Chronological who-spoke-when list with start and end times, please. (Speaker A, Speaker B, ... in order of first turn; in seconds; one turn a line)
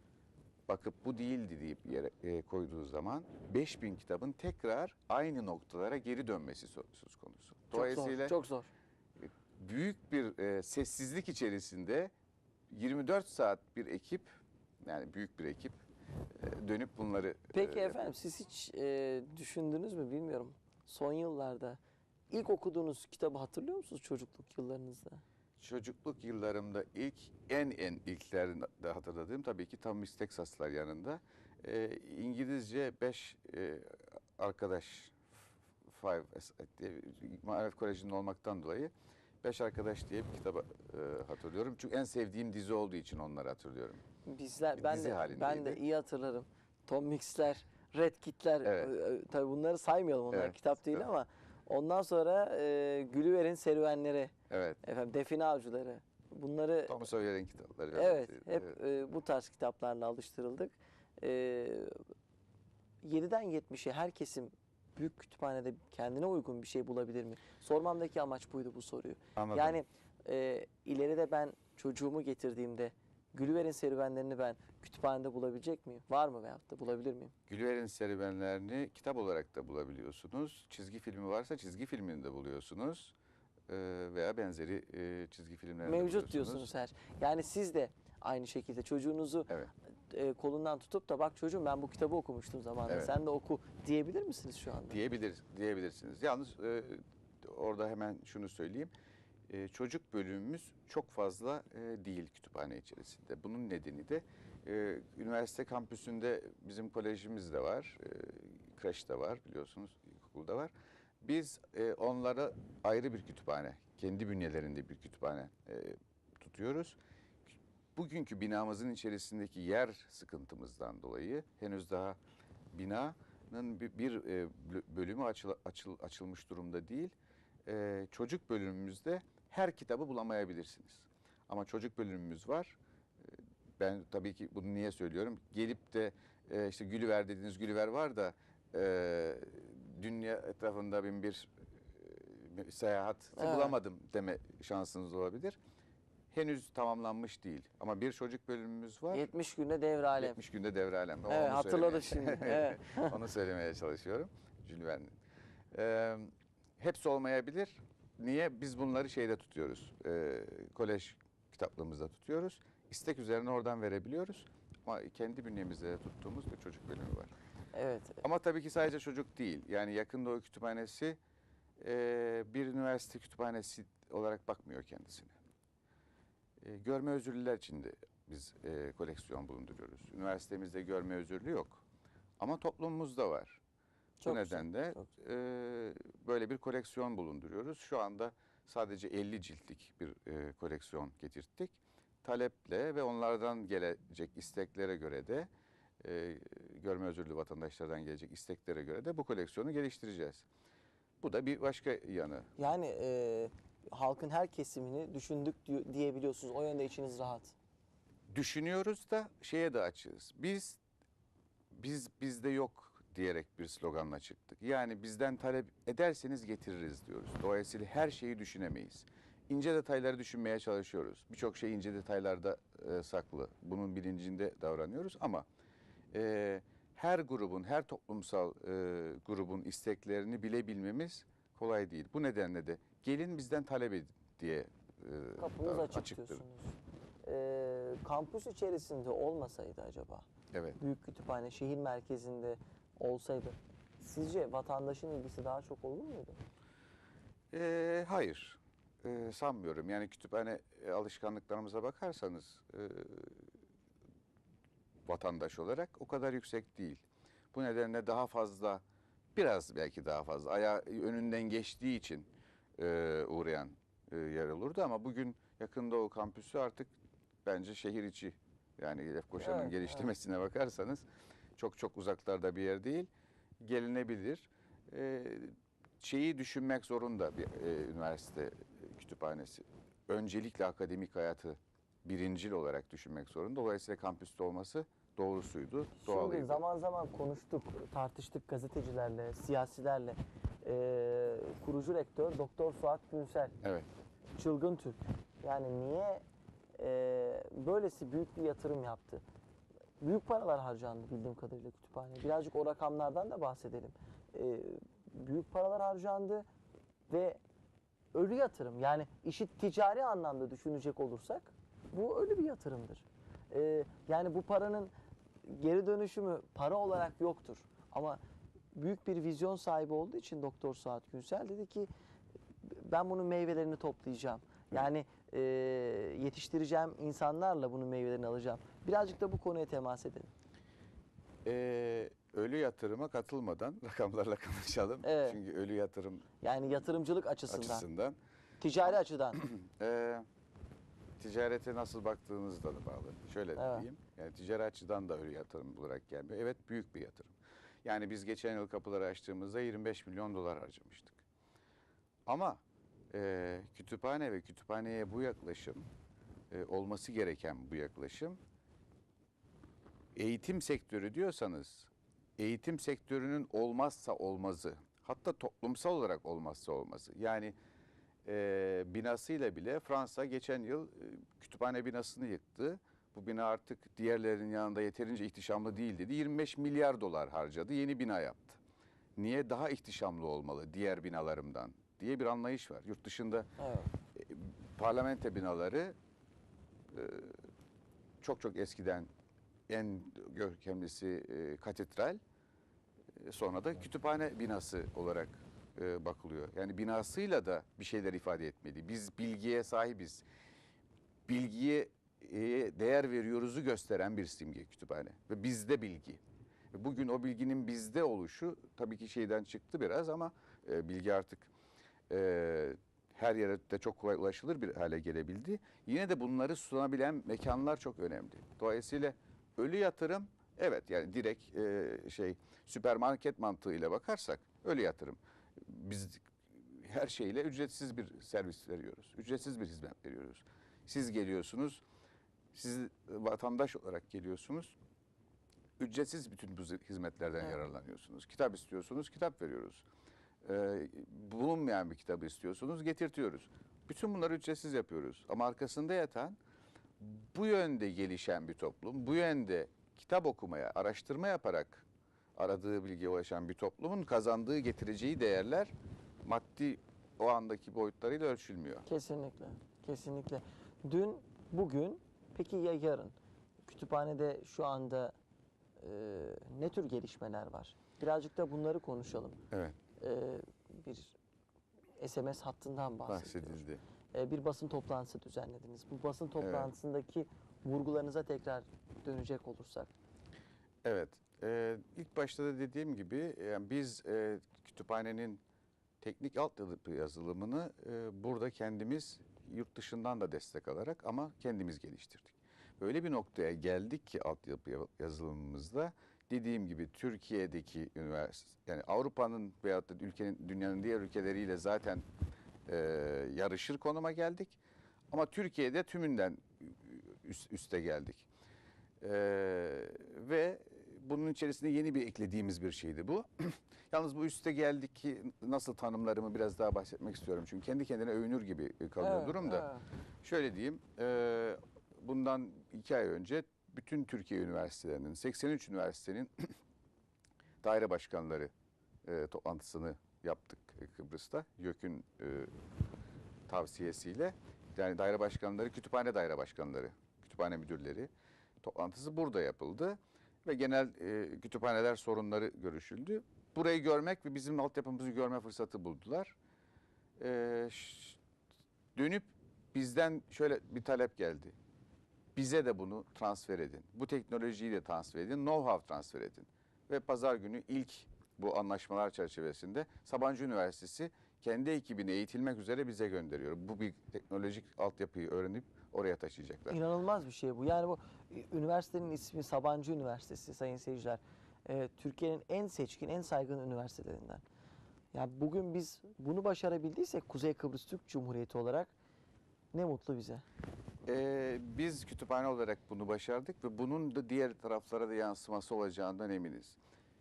Speaker A: 0.7-8.3
Speaker B: 7.7-8.7
Speaker A: 9.2-12.1
Speaker A: 12.7-14.3
Speaker A: 14.8-15.8
Speaker A: 16.4-18.0
Speaker B: 17.5-21.8
Speaker B: 22.3-25.2
Speaker A: 25.6-35.3
Speaker A: 35.8-44.0
Speaker B: 44.2-57.0
Speaker A: 44.8-45.8
Speaker A: 48.6-48.9
Speaker A: 50.3-51.0
Speaker A: 54.5-54.8
Speaker A: 56.9-58.8
Speaker B: 57.9-62.0
Speaker B: 63.0-77.3
Speaker A: 69.3-69.8
Speaker A: 77.5-83.1
Speaker A: 83.7-86.7
Speaker B: 85.8-89.5
Speaker B: 90.1-95.0
Speaker A: 94.9-98.9
Speaker A: 99.5-117.0
Speaker A: 117.9-122.2
Speaker A: 122.7-127.1
Speaker A: 127.7-145.6
Speaker B: 143.3-143.8
Speaker A: 146.3-149.3
Speaker B: 149.1-150.4
Speaker A: 150.2-155.1
Speaker B: 151.3-153.1
Speaker A: 155.7-167.3
Speaker B: 167.7-168.2
Speaker A: 168.2-171.2
Speaker A: 171.8-175.3
Speaker A: 176.6-181.8
Speaker A: 182.4-183.6
Speaker B: 184.2-185.0
Speaker A: 184.2-195.5
Speaker A: 196.0-200.4
Speaker A: 201.2-202.5
Speaker B: 202.6-207.5
Speaker A: 208.3-210.8
Speaker A: 211.7-225.4
Speaker A: 226.1-236.4
Speaker B: 235.4-240.3
Speaker A: 240.5-240.8
Speaker B: 240.8-246.4
Speaker A: 247.5-253.4
Speaker A: 255.1-258.8
Speaker A: 259.3-266.9
Speaker A: 267.4-271.1
Speaker B: 269.4-270.1
Speaker A: 271.6-273.1
Speaker A: 273.6-286.6
Speaker B: 286.0-293.6
Speaker A: 293.6-293.9
Speaker B: 294.4-296.2
Speaker B: 296.7-299.2
Speaker B: 300.0-306.4
Speaker B: 307.1-307.4
Speaker B: 308.1-314.9
Speaker B: 315.4-318.2
Speaker B: 318.7-321.9
Speaker B: 322.6-330.3
Speaker A: 331.4-336.2
Speaker B: 335.0-335.4
Speaker B: 336.4-337.9
Speaker A: 337.5-338.2
Speaker B: 338.6-339.4
Speaker A: 339.4-340.2
Speaker A: 341.2-347.3
Speaker B: 343.6-343.9
Speaker A: 347.8-351.2
Speaker A: 352.3-355.9
Speaker A: 356.5-358.4
Speaker A: 360.1-367.5
Speaker A: 368.2-378.6
Speaker A: 379.2-383.5
Speaker B: 383.6-383.9
Speaker A: 384.1-385.9
Speaker A: 386.9-387.4
Speaker A: 388.2-389.1
Speaker A: 389.7-392.2
Speaker A: 393.1-400.2
Speaker A: 401.3-406.2
Speaker A: 406.7-411.5
Speaker A: 412.1-431.8
Speaker A: 432.5-434.8
Speaker A: 435.8-439.8
Speaker A: 440.4-446.4
Speaker A: 447.0-455.7
Speaker A: 456.2-458.9
Speaker B: 458.9-465.1
Speaker B: 465.8-469.4
Speaker A: 469.5-469.8
Speaker B: 470.0-471.1
Speaker B: 472.0-473.6
Speaker A: 473.1-473.8
Speaker B: 474.1-479.9
Speaker A: 476.4-476.7
Speaker A: 480.8-485.4
Speaker A: 486.0-502.0
Speaker A: 502.7-504.6
Speaker A: 505.1-508.3
Speaker A: 509.0-519.7
Speaker B: 519.0-519.8
Speaker A: 520.2-526.5
Speaker A: 527.6-528.5
Speaker A: 529.0-532.5
Speaker A: 533.5-538.1
Speaker A: 538.6-546.4
Speaker A: 547.2-548.2
Speaker A: 548.9-551.5
Speaker A: 552.3-566.8
Speaker B: 566.7-574.4
Speaker B: 575.1-578.9
Speaker B: 579.7-580.4
Speaker A: 581.0-586.8